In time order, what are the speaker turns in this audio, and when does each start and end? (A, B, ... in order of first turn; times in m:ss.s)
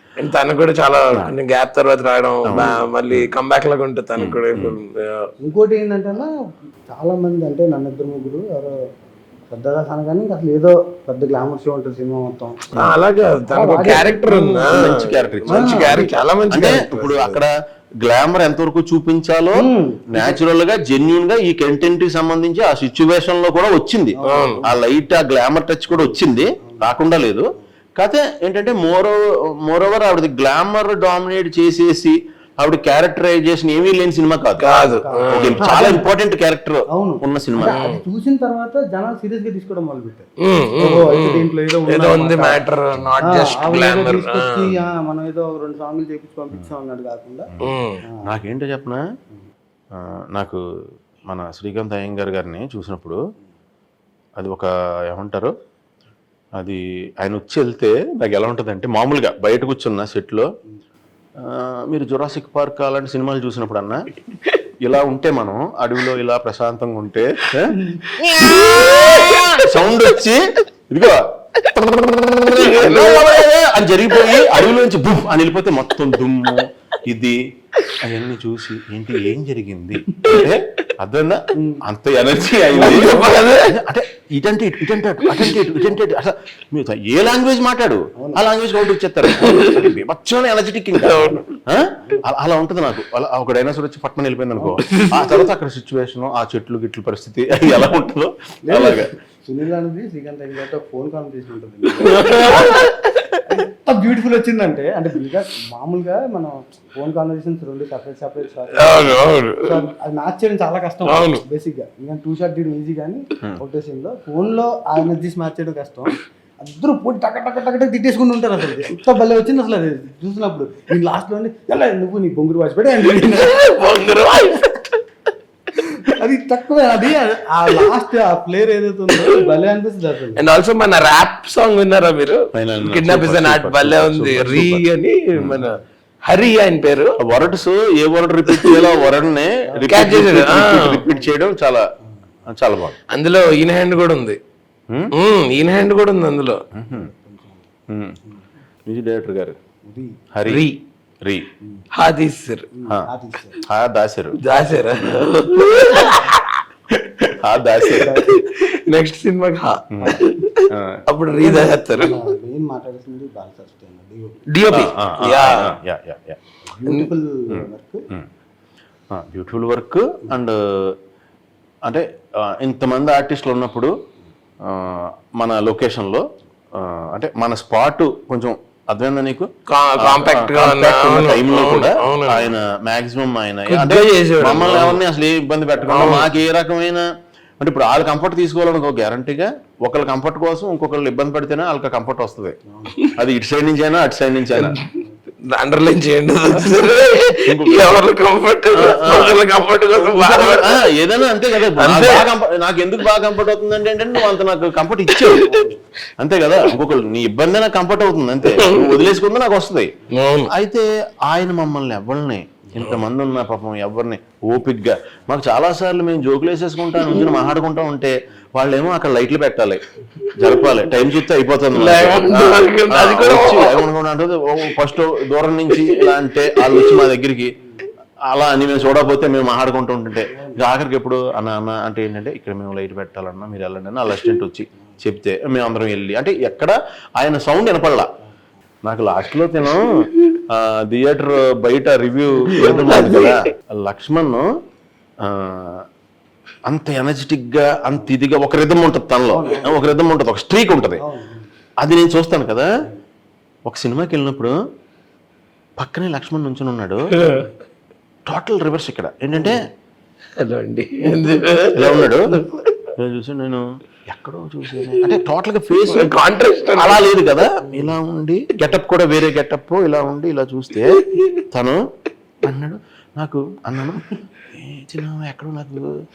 0:00.2-0:05.2 A
0:02.4-0:03.3 B
0:04.2-0:04.8 B
0:05.4-0:06.3 C
0:06.9-0:08.7 C
0:09.5-0:12.7 C
0:12.7-0:17.4 A
0:13.5-0:14.8 C
0:14.7-0:17.5 B
0:15.5-0:16.1 C
0:18.0-0:27.4 B
0:19.6-0:20.4 C
0:24.2-0:24.7 C
0:24.2-0:24.6 A
0:25.9-0:26.9 C
0:28.0-0:34.8 B
0:34.6-0:35.7 A
0:34.8-0:36.0 C
0:35.3-0:37.8 B
0:36.9-0:42.6 C
0:37.6-0:38.0 A
0:40.4-0:44.7 A
0:43.2-0:47.5 C
0:47.5-0:49.0 B
0:47.6-0:48.0 A
0:50.0-0:50.6 B
0:51.3-0:53.2 B
0:54.4-0:55.5 B
0:56.6-1:00.5 B
1:01.4-1:04.0 B
1:04.8-1:11.2 B
1:07.7-1:08.0 C
1:08.1-1:10.0 A
1:11.7-1:13.5 A
1:11.9-1:17.4 B
1:14.1-1:14.7 A
1:18.0-1:39.1 B
1:20.3-1:20.6 A
1:21.5-1:21.8 C
1:22.7-1:23.7 A
1:25.2-1:25.6 A
1:28.2-1:28.4 C
1:29.2-1:29.9 A
1:31.0-1:31.5 A
1:31.2-1:31.4 C
1:34.8-1:35.5 A
1:38.6-1:42.8 C
1:42.0-1:43.4 A
1:43.4-2:03.6 C
1:48.8-1:49.8 A
1:51.1-1:51.4 A
2:03.0-2:04.9 A
2:05.8-2:10.4 C
2:10.4-2:15.8 A
2:12.5-2:15.7 B
2:16.3-2:17.2 A
2:17.2-2:21.8 B
2:18.5-2:18.9 A
2:19.7-2:20.3 C
2:19.9-2:21.0 A
2:21.0-2:21.3 C
2:22.5-2:23.0 B
2:23.1-2:24.4 A
2:25.1-2:26.6 A
2:26.8-2:27.1 B
2:26.9-2:27.7 C
2:27.9-2:28.2 B
2:28.9-2:29.6 B
2:29.8-2:30.2 C
2:30.3-2:30.6 B
2:30.4-2:30.8 A
2:32.0-2:32.7 A
2:32.7-2:33.6 C
2:33.6-2:34.4 B
2:34.4-2:42.2 A
2:37.4-2:38.2 B
2:38.0-2:38.4 C
2:39.9-2:41.0 B
2:41.4-2:44.4 C
2:44.5-2:45.8 A
2:44.7-2:46.4 B
2:46.6-2:48.0 C
2:47.5-2:48.3 B
2:49.1-2:50.9 B
2:51.9-2:53.9 B
2:54.7-2:56.2 B
2:56.8-2:59.5 B
2:59.7-3:02.5 A
3:00.0-3:07.0 B
3:03.7-3:05.0 A
3:05.9-3:06.3 A
3:07.6-3:12.6 B
3:12.7-3:13.1 C
3:13.2-3:14.8 B
3:14.5-3:14.9 A
3:14.9-3:15.2 C
3:15.4-3:20.8 A
3:17.5-3:18.0 B
3:18.7-3:19.4 B
3:20.0-3:25.5 B
3:21.6-3:22.3 A
3:25.1-3:25.5 A
3:25.4-3:25.8 C
3:26.2-3:29.9 B
3:28.5-3:29.0 A
3:30.1-3:30.5 A
3:30.5-3:39.8 B
3:37.0-3:37.3 A
3:40.2-3:40.8 A
3:40.4-3:47.5 B
3:41.7-3:43.8 A
3:45.7-3:47.1 A
3:48.3-3:58.1 B
3:50.3-3:50.6 C
3:58.8-4:00.0 B
4:00.5-4:04.5 B
4:02.5-4:03.2 C
4:02.6-4:03.4 A
4:05.2-4:05.8 B
4:06.7-4:11.0 B
4:09.3-4:09.9 C
4:11.0-4:11.5 C
4:11.8-4:12.7 B
4:13.7-4:14.5 B
4:15.8-4:17.1 B
4:17.2-4:17.5 A
4:18.3-4:19.6 B
4:19.3-4:19.6 C
4:20.4-4:22.8 A
4:21.7-4:22.4 B
4:23.0-4:26.1 B
4:24.7-4:25.2 A
4:25.8-4:27.5 A
4:26.7-4:31.8 B
4:31.0-4:31.4 A
4:32.4-4:35.9 B